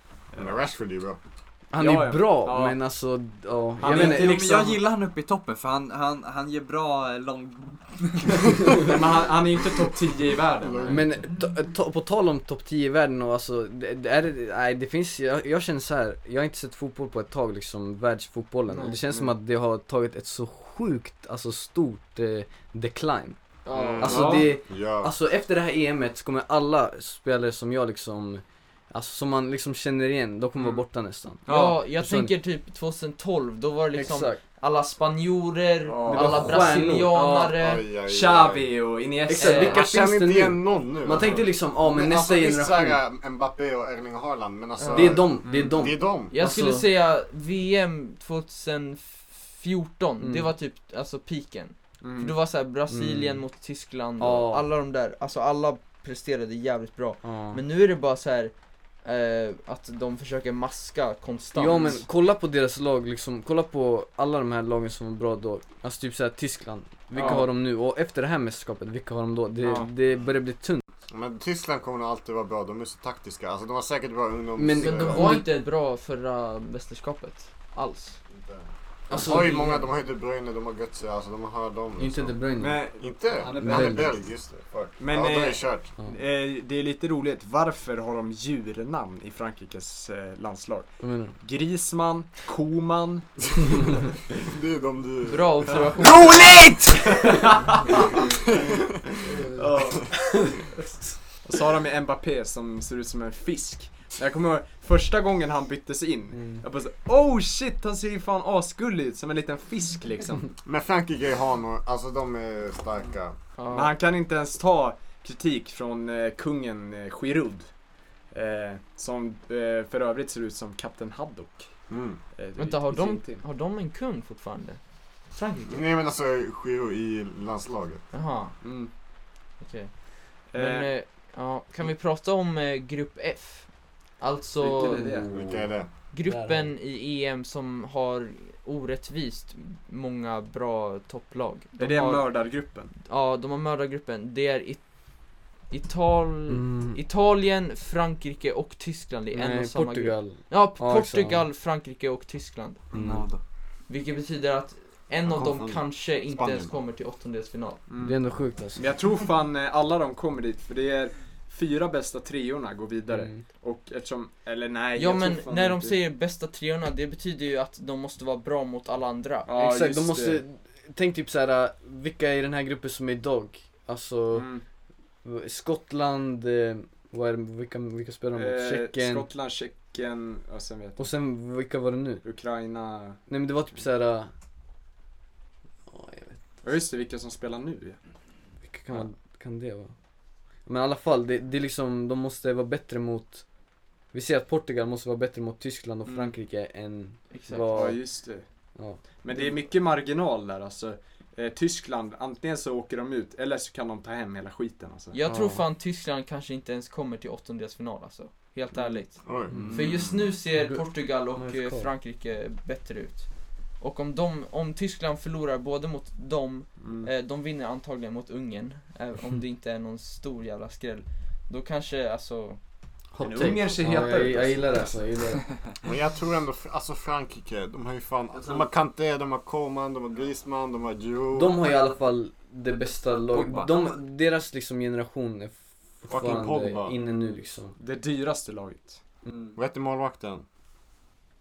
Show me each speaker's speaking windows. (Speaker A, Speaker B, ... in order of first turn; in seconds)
Speaker A: 0.3-0.6, 1.8-2.8, 3.8-4.9, 8.7-11.1, 19.1-19.3, 24.0-24.5, 31.5-31.8, 35.9-36.7, 38.1-39.8, 41.2-41.4, 45.4-45.8, 52.0-52.4, 57.2-57.6, 67.2-67.5, 69.6-69.9, 82.6-83.9, 85.0-93.3, 97.0-98.0, 99.5-100.4, 101.4-110.5, 113.7-117.7, 118.3-121.7, 122.4-123.4, 128.6-128.9, 130.5-130.9, 134.6-135.3, 141.8-142.9, 157.9-158.2, 158.8-166.0, 169.5-170.4, 174.3-174.6, 178.3-181.1, 182.2-183.2, 186.6-188.0, 196.1-196.3, 197.7-198.4, 199.2-205.2, 208.7-209.0, 216.8-217.1, 223.2-225.0, 237.8-239.0
Speaker B: 0.4-1.2, 10.6-11.3, 23.7-25.1, 37.5-38.7, 39.6-46.3, 71.1-75.4, 78.3-82.4, 83.0-85.9, 94.4-97.3, 98.2-98.9, 110.6-113.4, 121.9-122.2, 125.7-128.1, 135.3-135.9, 155.2-156.8, 209.2-209.6, 225.8-231.6, 236.1-236.9, 239.6-240.4
Speaker C: 1.7-4.4, 10.9-23.4, 24.0-32.3, 33.9-34.4, 36.1-37.5, 39.3-43.0, 44.9-46.9, 50.2-50.5, 52.9-53.4, 54.2-54.7, 61.5-70.8, 74.6-75.5, 79.1-79.7, 82.0-82.8, 83.5-84.2, 91.0-91.3, 99.2-100.2, 106.3-106.6, 135.0-135.7, 136.2-136.7, 146.5-147.0, 149.3-151.5, 152.9-153.3, 158.0-158.9, 163.1-163.4, 169.5-174.5, 175.2-179.3, 181.0-182.2, 183.3-184.3, 185.9-186.4, 188.6-189.9, 190.7-193.5, 194.1-198.0, 198.8-199.0, 205.3-205.6, 209.5-209.8, 210.5-211.9, 223.1-225.4, 231.3-237.8
Speaker D: 3.8-8.9, 152.9-153.4, 209.5-210.3, 233.3-233.9
Speaker E: 18.7-19.0, 23.6-24.3, 31.5-37.8, 39.4-39.8, 44.8-45.2, 46.3-62.0, 67.2-67.5, 74.8-78.2, 79.1-79.9, 95.2-96.5, 113.6-113.9, 122.6-125.8, 128.1-128.6, 129.6-129.9, 130.5-135.2, 136.1-142.4, 143.1-145.1, 145.7-152.8, 153.9-157.8, 165.0-169.5, 197.3-197.8, 205.1-222.6